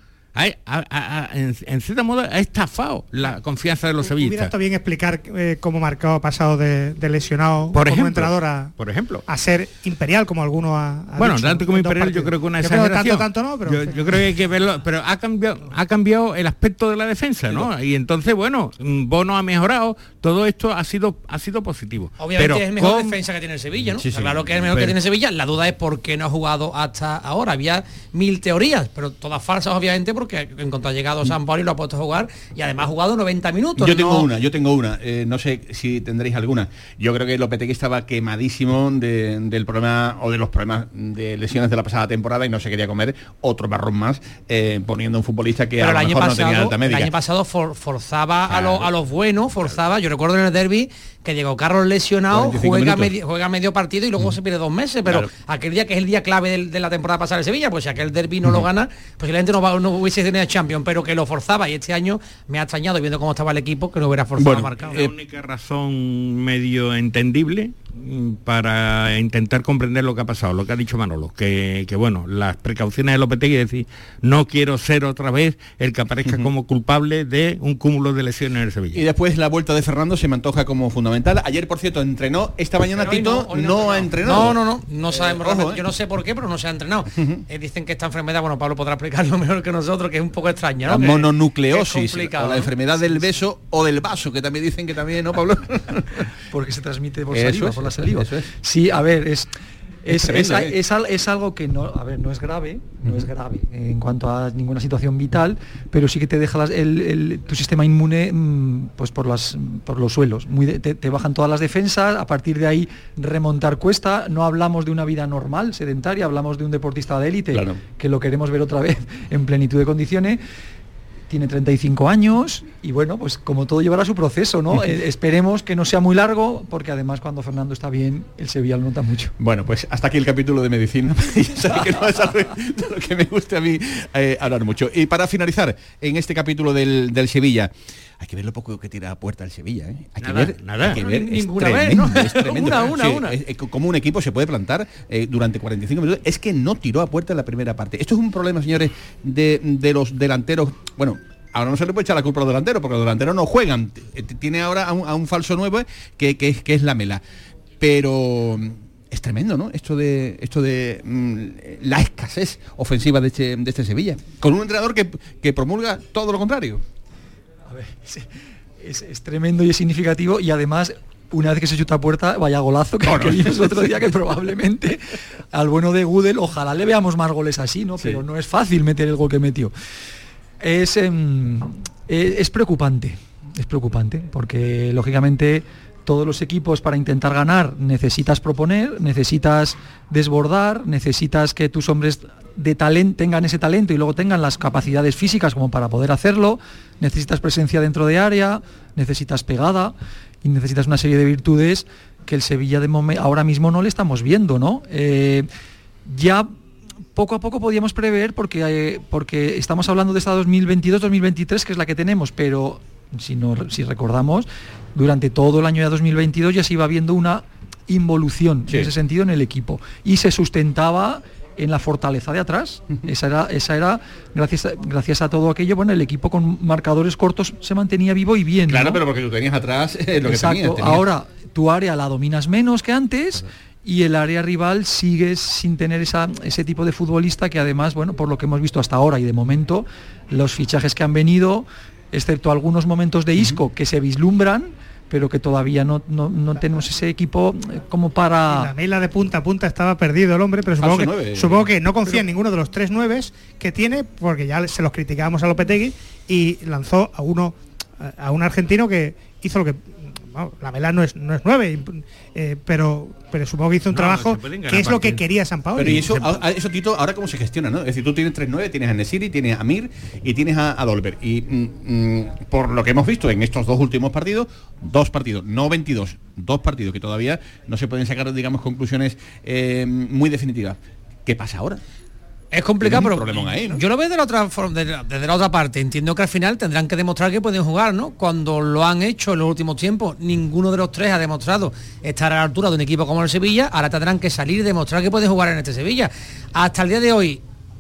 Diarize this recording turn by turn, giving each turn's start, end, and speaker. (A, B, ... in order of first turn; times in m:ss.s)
0:00.4-0:04.5 A
0:04.0-0:08.7 B
0:07.7-0:09.2 A
0:09.3-0:14.1 B
0:11.2-0:23.2 A
0:22.2-0:34.3 C
0:24.0-0:24.5 D
0:24.7-0:25.0 A
0:33.8-0:47.1 D
0:45.8-1:05.1 C
0:48.5-0:48.9 D
0:52.3-0:53.1 D
0:55.0-0:55.3 D
1:04.4-1:05.1 D
1:04.8-1:19.0 A
1:16.2-1:16.5 D
1:18.9-1:25.8 D
1:22.9-1:32.7 C
1:27.2-1:27.4 D
1:30.8-1:36.2 D
1:36.5-1:39.5 E
1:37.3-1:38.5 D
1:40.1-2:00.4 E
1:40.1-1:40.8 D
1:57.5-1:57.8 D
2:01.3-2:09.3 E
2:09.4-2:37.2 D
2:20.2-2:22.2 A
2:21.0-2:23.4 C
2:37.8-2:46.8 D
2:47.7-2:48.3 E
2:48.8-2:55.0 E
2:53.0-2:54.0 D
2:55.5-2:59.7 E
3:00.6-3:25.5 E
3:26.1-3:26.5 E
3:27.2-3:49.0 E
3:48.7-3:51.0 D
3:50.2-4:08.7 E
4:08.5-4:26.1 B
4:10.8-4:11.7 D
4:23.9-4:25.2 A
4:25.8-4:41.8 D
4:25.8-4:26.5 A
4:42.5-4:57.4 C
4:42.8-4:43.8 D